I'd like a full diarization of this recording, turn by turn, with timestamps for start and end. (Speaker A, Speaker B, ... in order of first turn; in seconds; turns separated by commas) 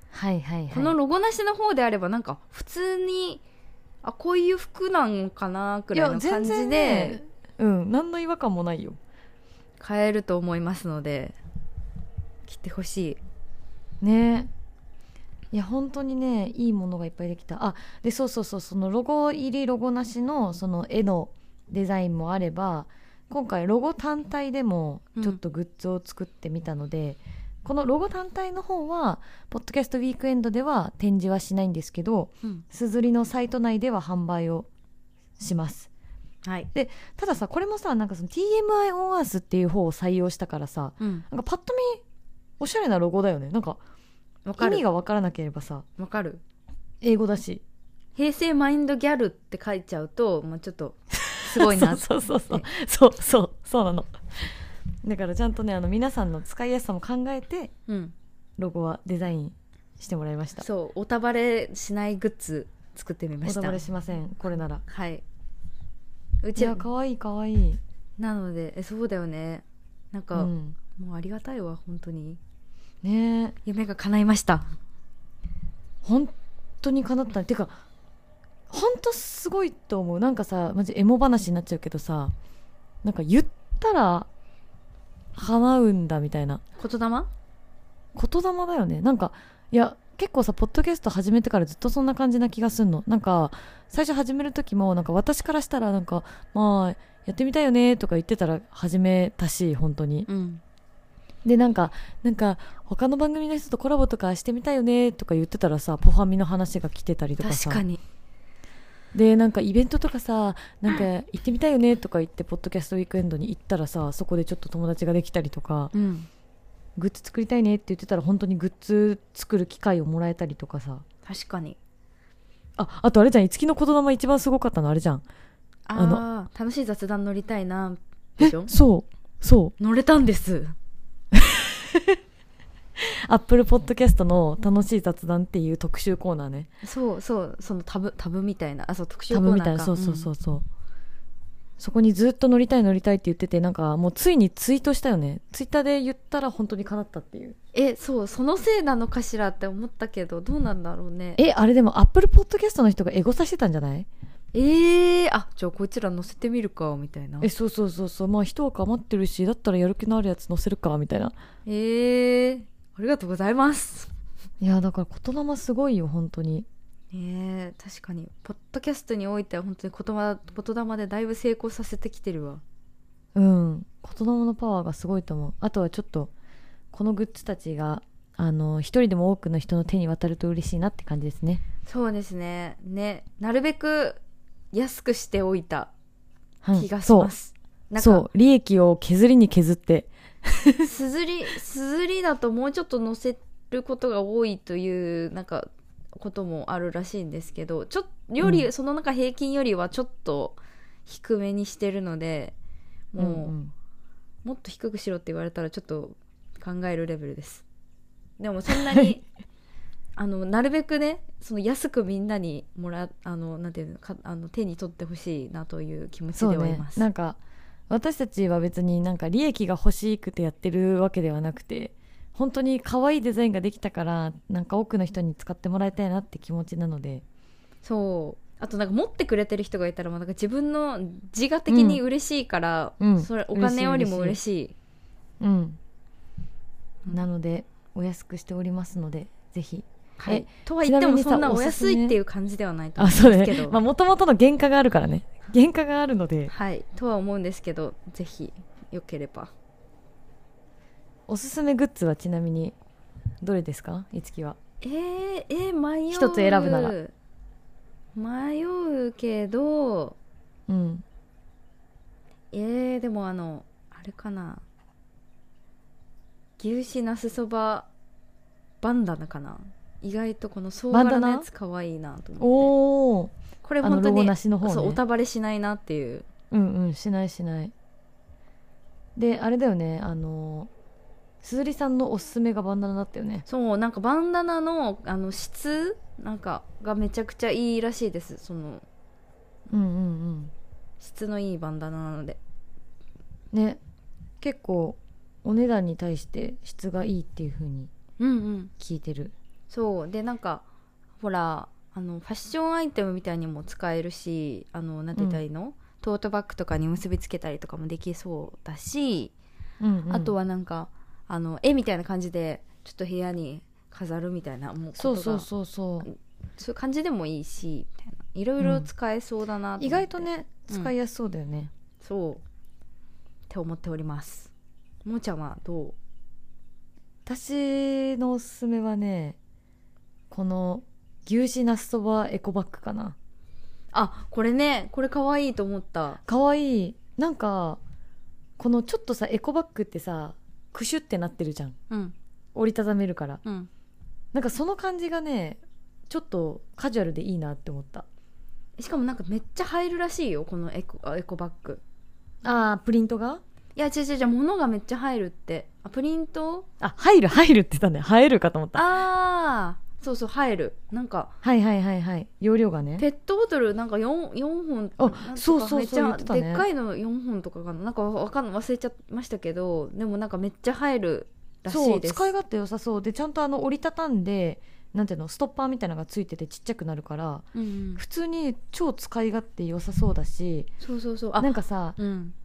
Speaker A: 0.1-0.9, Speaker B: 0.7-3.4, Speaker B: 4.0-7.2, Speaker A: 5.9-9.0, Speaker B: 9.8-11.3, Speaker B: 12.4-13.2, Speaker A: 14.0-14.5, Speaker A: 15.5-34.7, Speaker A: 35.4-35.9, Speaker A: 36.7-42.0, Speaker B: 41.0-41.2, Speaker A: 42.6-43.8, Speaker B: 44.5-44.8, Speaker A: 44.6-45.8, Speaker B: 46.0-46.4, Speaker A: 47.0-47.6, Speaker B: 48.1-52.7, Speaker A: 51.3-57.7, Speaker B: 57.9-58.1, Speaker A: 58.6-60.6, Speaker B: 60.6-63.8, Speaker A: 63.4-64.8, Speaker B: 64.8-65.2, Speaker B: 66.4-66.8, Speaker A: 66.6-67.8, Speaker B: 68.2-72.4, Speaker A: 70.3-70.8, Speaker A: 73.0-73.6, Speaker B: 73.6-74.7, Speaker A: 76.0-77.8, Speaker A: 78.7-82.3, Speaker A: 83.0-84.3, Speaker A: 85.3-86.6, Speaker B: 86.8-87.3, Speaker A: 88.1-100.3, Speaker B: 100.3-100.6, Speaker A: 101.4-107.8, Speaker B: 107.4-108.0, Speaker A: 109.1-115.9, Speaker B: 115.9-116.3, Speaker A: 117.0-121.0, Speaker B: 121.2-121.8, Speaker A: 122.8-125.2, Speaker B: 125.9-128.7, Speaker A: 126.0-126.2, Speaker A: 128.4-129.7, Speaker B: 129.8-130.7, Speaker A: 131.3-132.2, Speaker A: 133.0-136.7, Speaker B: 136.8-140.3, Speaker A: 139.3-140.7, Speaker A: 141.8-147.6, Speaker B: 147.7-151.4, Speaker A: 151.4-154.1, Speaker B: 154.5-157.5, Speaker A: 157.4-161.3, Speaker B: 161.7-164.1, Speaker A: 164.6-166.7, Speaker B: 167.1-172.6, Speaker A: 173.3-176.3, Speaker A: 176.9-181.6, Speaker B: 181.8-184.2, Speaker B: 184.7-185.9, Speaker A: 186.6-187.3, Speaker B: 186.7-188.2, Speaker A: 188.0-190.9, Speaker B: 190.8-202.6, Speaker A: 198.4-198.7, Speaker B: 203.1-203.5, Speaker A: 203.2-203.7, Speaker B: 204.4-207.6, Speaker B: 208.4-209.2, Speaker A: 208.7-209.1, Speaker B: 210.2-217.1, Speaker A: 216.3-217.4, Speaker A: 217.9-227.2, Speaker B: 227.8-234.7, Speaker A: 231.7-232.0, Speaker A: 233.0-234.4, Speaker A: 235.4-235.8, Speaker A: 237.1-242.2, Speaker B: 240.2-243.8, Speaker A: 243.0-246.5, Speaker B: 246.5-249.5, Speaker A: 251.3-252.8, Speaker A: 253.4-254.6, Speaker B: 254.8-257.1, Speaker A: 256.1-256.9, Speaker B: 258.1-260.2, Speaker A: 260.7-261.0, Speaker B: 262.5-264.6, Speaker B: 266.6-267.9, Speaker B: 268.8-272.7, Speaker A: 270.9-271.5, Speaker A: 272.4-275.0, Speaker B: 273.6-276.2, Speaker A: 276.5-277.7, Speaker A: 279.1-280.7, Speaker A: 281.4-283.4, Speaker B: 283.4-288.8, Speaker A: 289.7-290.5, Speaker B: 291.0-292.4, Speaker A: 293.5-293.8, Speaker A: 294.4-297.9, Speaker B: 298.2-298.7, Speaker A: 298.8-299.3, Speaker B: 299.7-300.6, Speaker B: 301.2-309.3, Speaker A: 305.1-305.4, Speaker A: 309.8-310.3, Speaker B: 310.1-315.5, Speaker A: 314.9-316.1, Speaker B: 316.0-320.9, Speaker A: 318.6-318.9, Speaker A: 319.8-321.7, Speaker B: 322.0-322.4, Speaker B: 323.5-324.5, Speaker B: 325.0-325.9, Speaker A: 327.2-329.4, Speaker A: 330.3-333.1, Speaker B: 333.9-336.2, Speaker A: 336.3-337.8, Speaker A: 338.6-341.8, Speaker A: 342.5-343.4, Speaker A: 344.3-348.1, Speaker B: 348.8-351.8, Speaker A: 352.4-353.4, Speaker B: 353.8-356.7, Speaker A: 356.8-358.9, Speaker B: 358.7-361.3, Speaker A: 361.4-363.0, Speaker B: 363.0-372.3, Speaker A: 365.0-366.6, Speaker A: 371.7-377.4, Speaker B: 377.5-378.0, Speaker A: 378.0-380.7, Speaker B: 380.8-382.3, Speaker A: 381.4-382.0